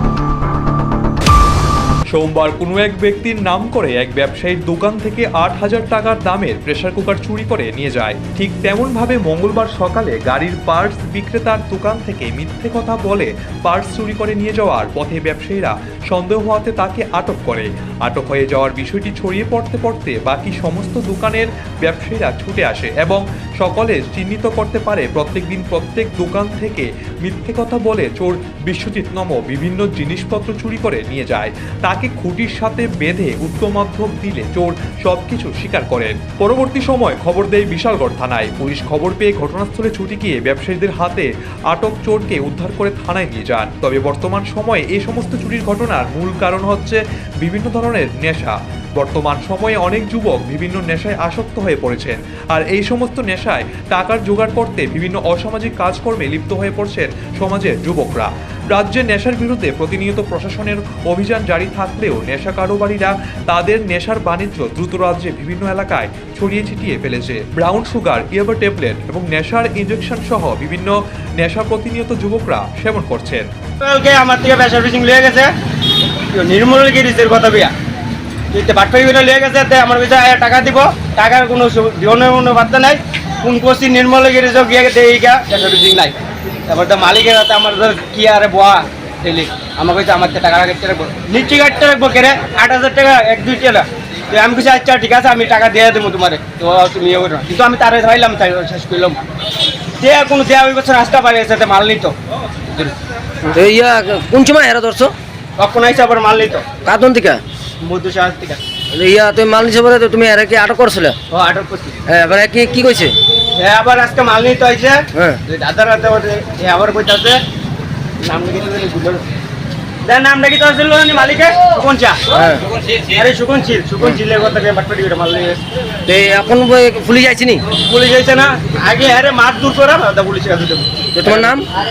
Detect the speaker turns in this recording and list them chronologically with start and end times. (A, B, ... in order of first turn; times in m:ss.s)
0:02.1-1:13.5 A
1:13.8-1:15.5 B
1:16.3-1:17.7 B
1:18.5-1:26.2 B
1:26.7-1:39.2 B
1:40.0-1:42.1 B
1:43.5-1:45.1 C
1:45.6-1:46.7 B
1:46.8-1:47.4 C
1:47.8-1:48.6 B
1:48.9-1:51.2 C
1:51.3-1:52.0 B
1:52.1-1:53.2 C
1:53.6-1:57.4 B
1:55.1-1:55.4 C
1:58.2-1:59.2 B
2:00.1-2:02.2 B
2:02.3-2:02.6 C
2:02.9-2:05.6 B
2:06.1-2:07.6 C
2:07.8-2:11.1 B
2:11.2-2:11.7 C